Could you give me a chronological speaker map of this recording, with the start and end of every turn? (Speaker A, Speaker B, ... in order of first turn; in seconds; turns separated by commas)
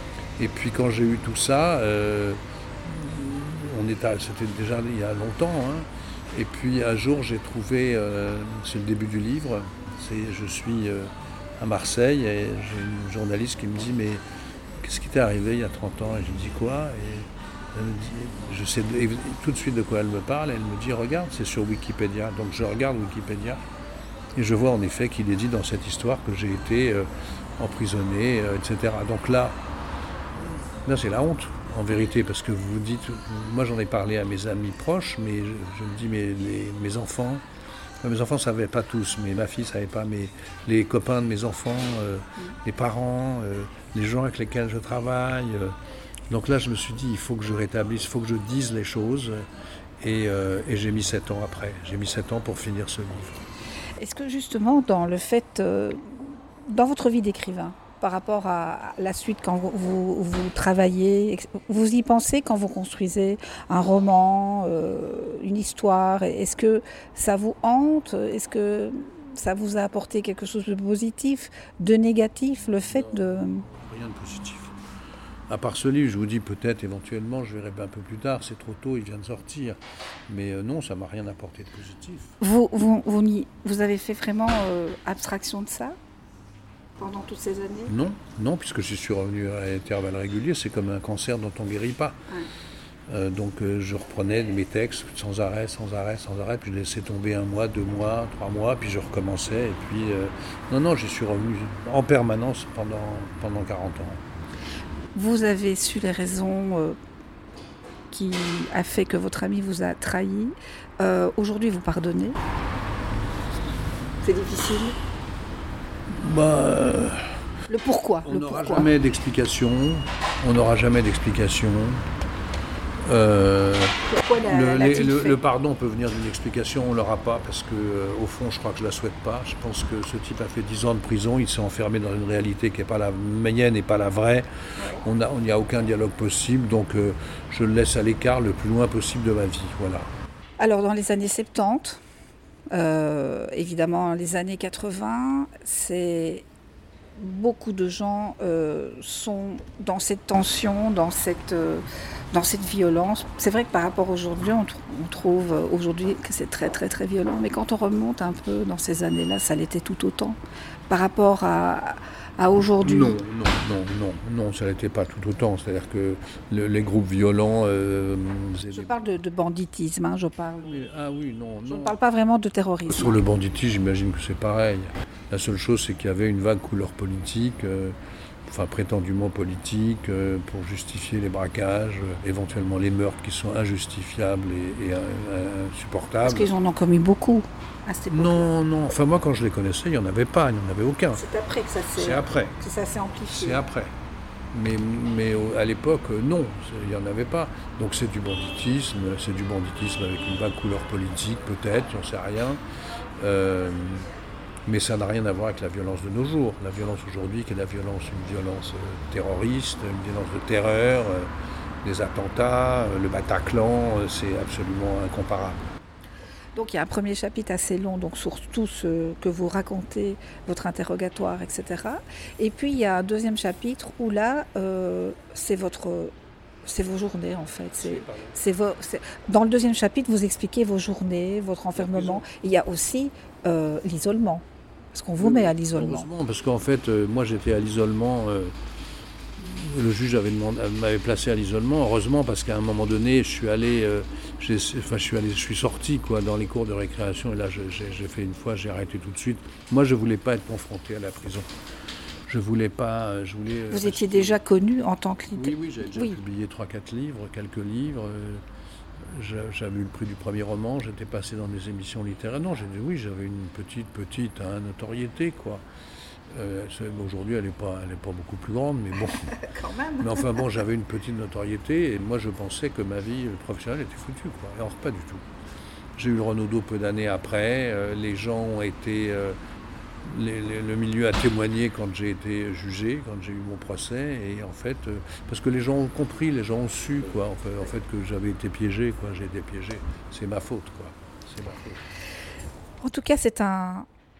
Speaker A: 0.4-14.2, Speaker A: 14.8-23.6, Speaker A: 24.4-27.1, Speaker A: 27.6-29.6, Speaker A: 30.8-37.4, Speaker A: 38.0-45.7, Speaker A: 46.3-49.4, Speaker A: 50.0-53.5, Speaker B: 54.0-73.7, Speaker A: 72.9-74.8, Speaker A: 75.5-82.3, Speaker B: 82.4-86.0, Speaker B: 87.0-87.9, Speaker A: 87.9-92.2, Speaker A: 93.1-104.2, Speaker B: 105.1-107.0, Speaker B: 108.1-112.4, Speaker B: 114.2-114.9, Speaker A: 116.1-117.2, Speaker B: 117.7-118.9, Speaker A: 118.2-122.0, Speaker A: 123.0-134.4, Speaker B: 124.1-125.4, Speaker A: 135.0-140.1, Speaker B: 140.6-142.0, Speaker B: 142.7-146.4, Speaker B: 147.2-160.4, Speaker B: 160.9-163.2, Speaker A: 162.8-169.0, Speaker B: 168.7-170.7, Speaker A: 170.6-172.0, Speaker B: 171.7-173.2, Speaker A: 172.9-177.9, Speaker A: 178.5-186.5, Speaker B: 186.2-188.5, Speaker A: 188.1-191.2, Speaker B: 191.1-193.6, Speaker A: 191.9-192.6, Speaker A: 193.3-193.9, Speaker A: 194.5-202.6, Speaker A: 203.2-204.1, Speaker A: 204.7-211.3, Speaker A: 211.8-215.6, Speaker B: 216.5-226.1, Speaker B: 226.6-236.1, Speaker A: 227.8-228.3, Speaker A: 231.7-232.2, Speaker A: 235.2-238.5, Speaker A: 239.4-251.5, Speaker A: 252.3-254.4, Speaker B: 253.7-256.2, Speaker A: 255.3-258.4, Speaker A: 259.1-265.6, Speaker A: 266.3-269.4, Speaker B: 269.4-270.3, Speaker A: 270.0-275.2, Speaker A: 275.9-279.4, Speaker A: 280.0-291.8, Speaker B: 292.8-293.9